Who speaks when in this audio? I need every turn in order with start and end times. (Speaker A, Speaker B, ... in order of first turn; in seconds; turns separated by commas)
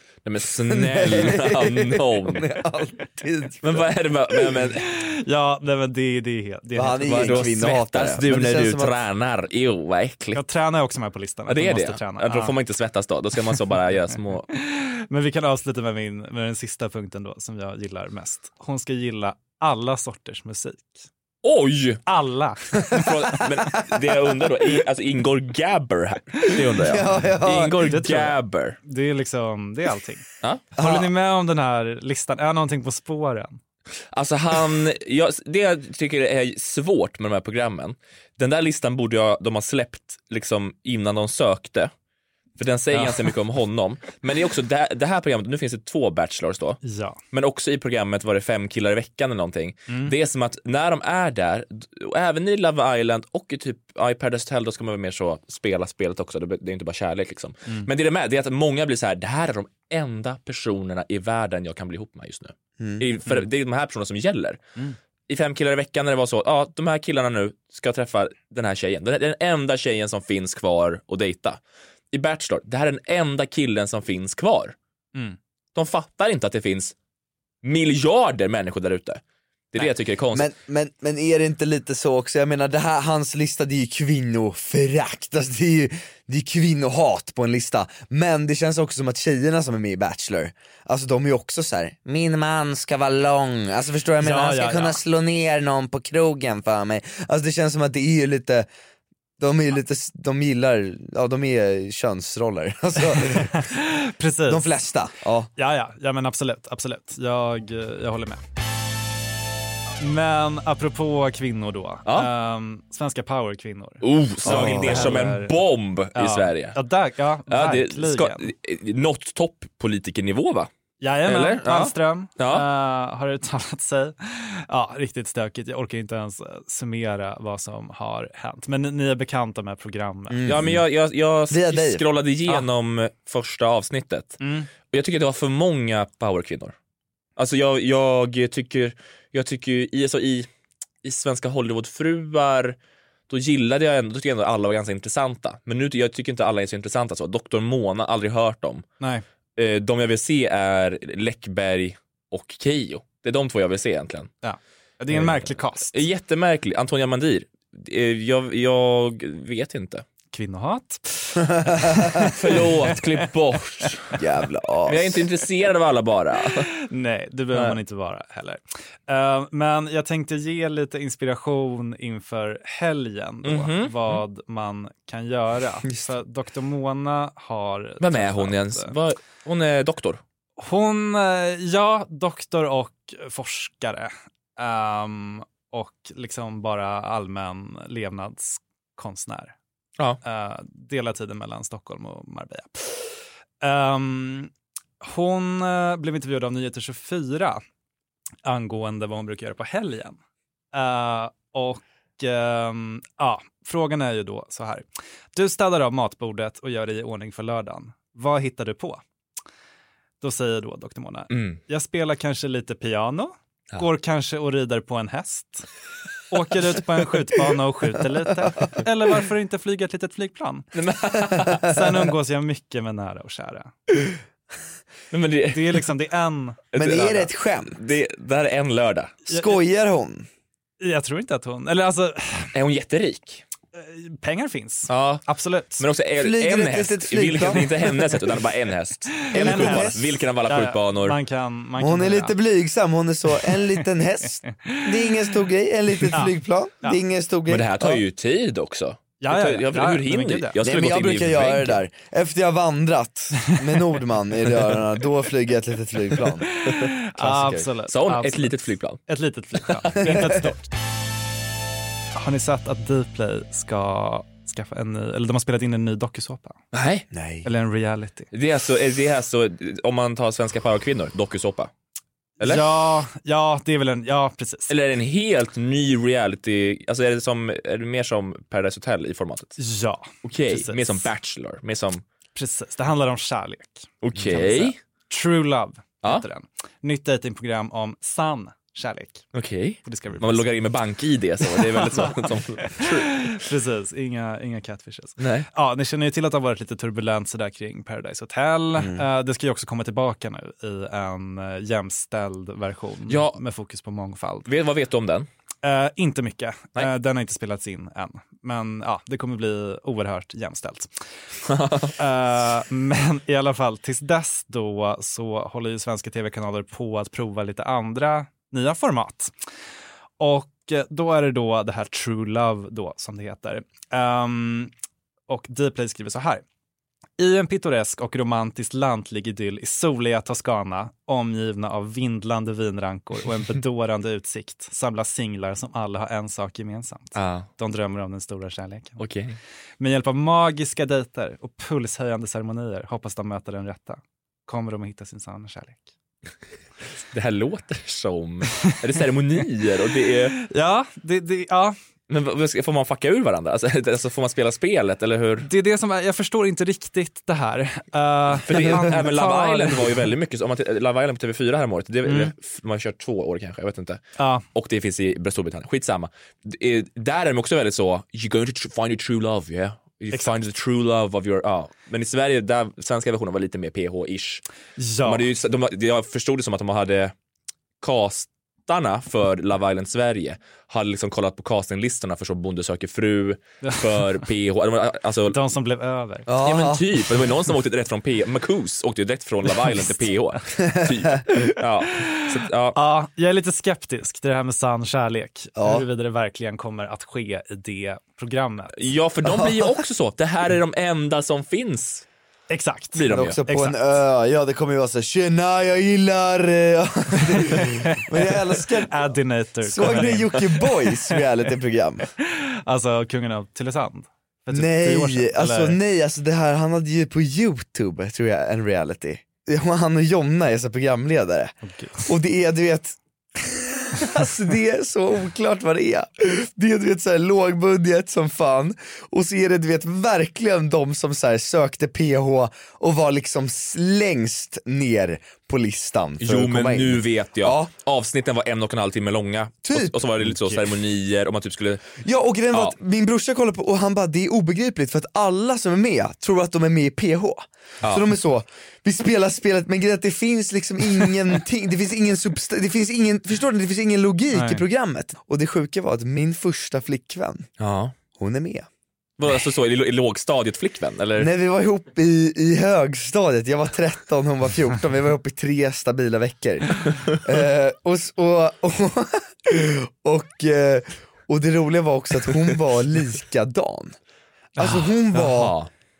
Speaker A: 0.2-2.5, Speaker B: 0.7-3.9, Speaker A: 3.6-4.8, Speaker C: 4.9-7.6, Speaker B: 6.7-8.9, Speaker A: 7.0-10.4, Speaker C: 10.3-12.5, Speaker A: 11.5-14.4, Speaker C: 14.5-21.1, Speaker A: 21.4-22.0, Speaker C: 22.1-23.5, Speaker A: 22.9-28.8, Speaker B: 26.7-27.8, Speaker C: 27.8-33.6, Speaker B: 30.8-31.1, Speaker A: 34.1-41.9, Speaker A: 42.6-46.8, Speaker C: 42.9-43.3, Speaker C: 46.8-47.2, Speaker A: 47.3-64.6, Speaker C: 49.9-50.1, Speaker B: 62.8-63.0, Speaker A: 65.3-71.6, Speaker A: 72.1-74.8, Speaker A: 75.7-76.9, Speaker A: 77.6-79.2, Speaker A: 79.7-80.5, Speaker B: 80.3-98.7, Speaker C: 94.2-95.0, Speaker B: 99.4-103.6, Speaker C: 103.1-104.7, Speaker B: 104.5-105.5, Speaker C: 105.5-108.4, Speaker C: 110.0-115.6, Speaker A: 114.0-116.8, Speaker B: 114.4-115.2, Speaker C: 116.1-118.5, Speaker A: 117.5-120.7, Speaker C: 121.0-130.4, Speaker A: 121.2-122.7, Speaker B: 130.3-130.8, Speaker A: 130.4-136.7, Speaker B: 131.5-132.0, Speaker C: 134.4-134.7, Speaker A: 137.4-140.5, Speaker A: 141.0-142.8, Speaker A: 143.3-148.8, Speaker A: 149.6-154.3, Speaker C: 154.4-156.0, Speaker A: 155.1-160.0, Speaker C: 160.3-163.2, Speaker A: 162.3-164.2, Speaker B: 164.2-165.2, Speaker A: 164.8-166.7, Speaker C: 166.8-178.9, Speaker A: 173.4-174.2, Speaker A: 178.0-180.2, Speaker C: 180.6-189.5, Speaker C: 190.2-194.5, Speaker C: 195.0-197.6, Speaker C: 198.4-200.2, Speaker C: 200.7-209.0, Speaker C: 210.2-215.7, Speaker A: 211.3-211.6, Speaker C: 216.3-220.7, Speaker A: 220.7-221.7, Speaker C: 221.6-223.8, Speaker A: 225.1-225.8, Speaker C: 225.5-226.7, Speaker A: 226.7-229.2, Speaker B: 226.7-227.8, Speaker C: 229.3-229.6, Speaker B: 229.3-230.3, Speaker C: 230.8-232.5, Speaker A: 232.5-233.4, Speaker C: 233.7-235.8, Speaker A: 234.9-235.2, Speaker A: 235.8-241.2, Speaker B: 236.2-237.7, Speaker C: 239.3-242.4, Speaker B: 239.3-240.1, Speaker B: 241.8-248.0, Speaker C: 246.1-247.0, Speaker A: 247.5-251.8, Speaker C: 249.2-250.6, Speaker B: 250.6-256.5, Speaker C: 256.6-258.5, Speaker B: 257.2-257.6, Speaker A: 257.9-259.0, Speaker C: 259.1-260.7, Speaker A: 259.8-260.4, Speaker C: 262.1-266.6, Speaker A: 266.7-267.1, Speaker B: 267.1-267.5, Speaker C: 267.4-268.3, Speaker A: 268.3-271.7, Speaker A: 272.4-272.9, Speaker C: 272.4-274.7, Speaker A: 274.7-279.6, Speaker C: 279.6-281.1, Speaker A: 280.2-282.0, Speaker C: 282.3-289.2, Speaker A: 284.0-284.8, Speaker A: 289.3-293.3, Speaker C: 289.8-290.5, Speaker C: 291.6-304.5, Speaker A: 295.2-295.5, Speaker A: 303.1-303.4, Speaker A: 304.5-305.3, Speaker C: 305.6-310.9, Speaker A: 311.4-311.9, Speaker C: 312.0-319.3, Speaker C: 320.2-324.7, Speaker C: 325.3-326.4, Speaker C: 327.2-339.0, Speaker A: 337.1-337.5, Speaker A: 339.0-339.4, Speaker C: 339.8-345.9, Speaker A: 347.1-350.4, Speaker C: 350.4-351.7, Speaker A: 352.1-355.5, Speaker C: 355.4-360.1, Speaker A: 358.4-364.0, Speaker C: 362.1-362.3, Speaker C: 364.2-364.4, Speaker A: 364.5-374.4, Speaker C: 374.8-375.3, Speaker A: 375.0-377.1, Speaker A: 377.8-385.4, Speaker C: 385.3-386.3, Speaker B: 386.3-387.0, Speaker A: 386.4-392.8, Speaker C: 392.7-398.8, Speaker B: 395.6-395.8, Speaker A: 398.8-402.1, Speaker C: 402.5-403.8, Speaker A: 402.9-403.4, Speaker B: 403.1-409.1, Speaker C: 407.4-408.0, Speaker C: 408.8-410.7, Speaker B: 409.6-412.0, Speaker C: 412.2-415.8, Speaker B: 414.5-437.7, Speaker C: 421.6-422.1, Speaker A: 436.2-442.0, Speaker B: 439.6-439.9, Speaker B: 442.0-457.5, Speaker C: 454.3-454.6, Speaker A: 457.6-457.9, Speaker B: 458.2-458.7, Speaker A: 459.2-461.3, Speaker B: 461.2-473.9, Speaker B: 474.6-475.6, Speaker C: 474.6-475.2, Speaker A: 475.2-475.7